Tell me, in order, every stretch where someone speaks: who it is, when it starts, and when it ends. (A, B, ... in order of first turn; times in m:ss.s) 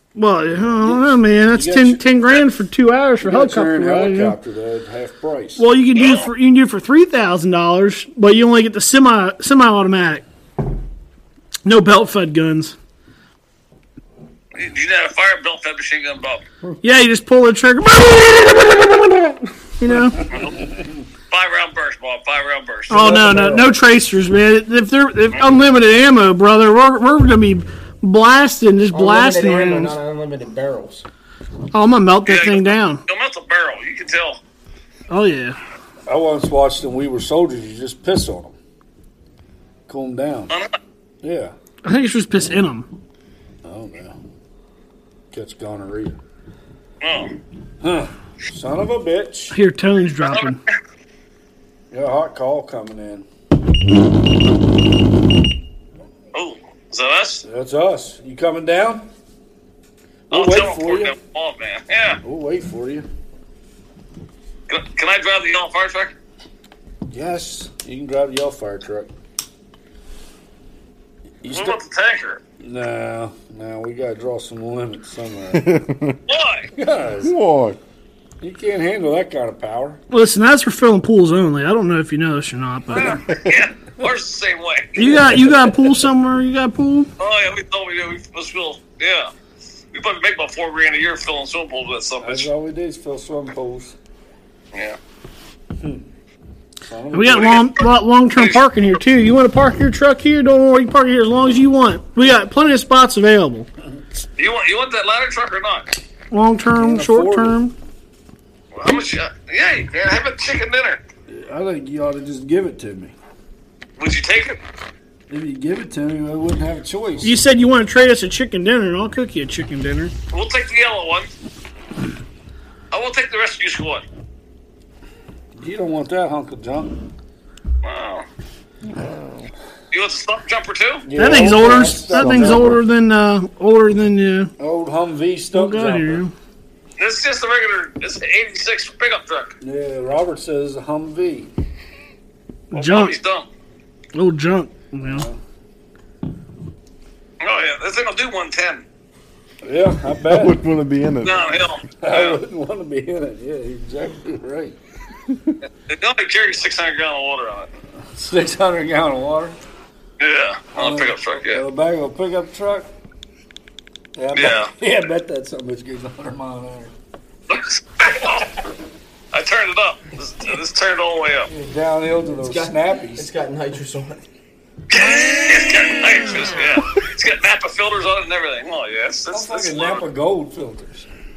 0:00.1-0:04.4 A
0:00.8-0:02.0 B
0:03.2-0:05.6 B
0:05.6-0:10.2 A
0:06.0-0:06.3 C
0:11.6-0:12.7 A
0:14.5-0:16.4 C
0:16.8-0:20.3 A
0:19.9-0:21.0 B
0:20.3-0:20.6 C
0:21.3-0:22.9 C
0:22.9-0:23.7 B
0:22.9-0:30.0 A
0:28.9-0:31.0 D
0:31.7-0:33.0 A
0:32.2-0:34.4 C
0:35.1-0:35.6 A
0:36.1-0:38.6 B
0:39.9-0:40.5 B
0:41.2-0:41.5 B
0:41.8-0:42.9 A
0:43.6-0:44.2 B
0:45.3-0:46.2 B
0:47.0-0:47.4 C
0:47.8-0:49.6 B
0:49.5-0:50.6 A
0:50.2-0:50.6 C
0:51.9-0:53.3 B
0:56.3-0:57.4 C
0:57.4-0:59.1 B
1:00.3-1:01.1 B
1:00.3-1:02.2 C
1:02.2-1:03.1 B
1:04.7-1:06.1 C
1:07.1-1:09.1 B
1:11.4-1:11.8 B
1:11.5-1:12.4 C
1:12.6-1:15.9 B
1:15.5-1:16.2 E
1:16.3-1:16.7 C
1:16.7-1:17.3 B
1:17.2-1:17.8 E
1:18.4-1:20.0 B
1:20.1-1:23.3 A
1:22.9-1:25.0 C
1:24.9-1:27.1 A
1:25.0-1:25.8 B
1:27.2-1:29.3 C
1:29.9-1:32.5 C
1:32.2-1:34.0 B
1:35.8-1:36.0 B
1:36.8-1:37.6 B
1:37.1-1:43.7 A
1:37.3-1:38.6 C
1:44.4-1:45.9 C
1:46.3-1:47.7 A
1:46.7-1:47.6 B
1:48.7-1:51.0 C
1:51.3-1:53.1 B
1:54.0-1:54.6 C
1:55.3-1:57.4 B
1:57.2-2:00.1 A
2:00.3-2:01.3 C
2:02.9-2:04.0 C
2:05.6-2:07.1 B
2:07.8-2:08.2 C
2:09.9-2:11.1 C
2:11.0-2:12.8 B
2:11.1-2:14.5 A
2:14.6-2:16.2 B
2:15.5-2:16.3 A
2:17.0-2:19.5 C
2:19.6-2:21.5 B
2:22.7-2:23.2 A
2:22.7-2:23.5 C
2:24.1-2:25.3 A
2:25.0-2:25.4 B
2:27.4-2:28.8 C
2:29.6-2:30.6 B
2:30.3-2:31.6 E
2:31.2-2:32.4 C
2:32.0-2:34.8 B
2:35.9-2:37.7 C
2:38.0-2:39.6 B
2:40.2-2:41.6 C
2:40.8-2:42.9 B
2:44.2-2:46.9 B
2:44.3-2:44.7 C
2:47.5-2:48.6 C
2:49.3-2:51.5 C
2:51.4-2:53.3 B
2:52.3-2:54.2 D
2:54.9-3:00.0 C
2:59.3-3:01.1 B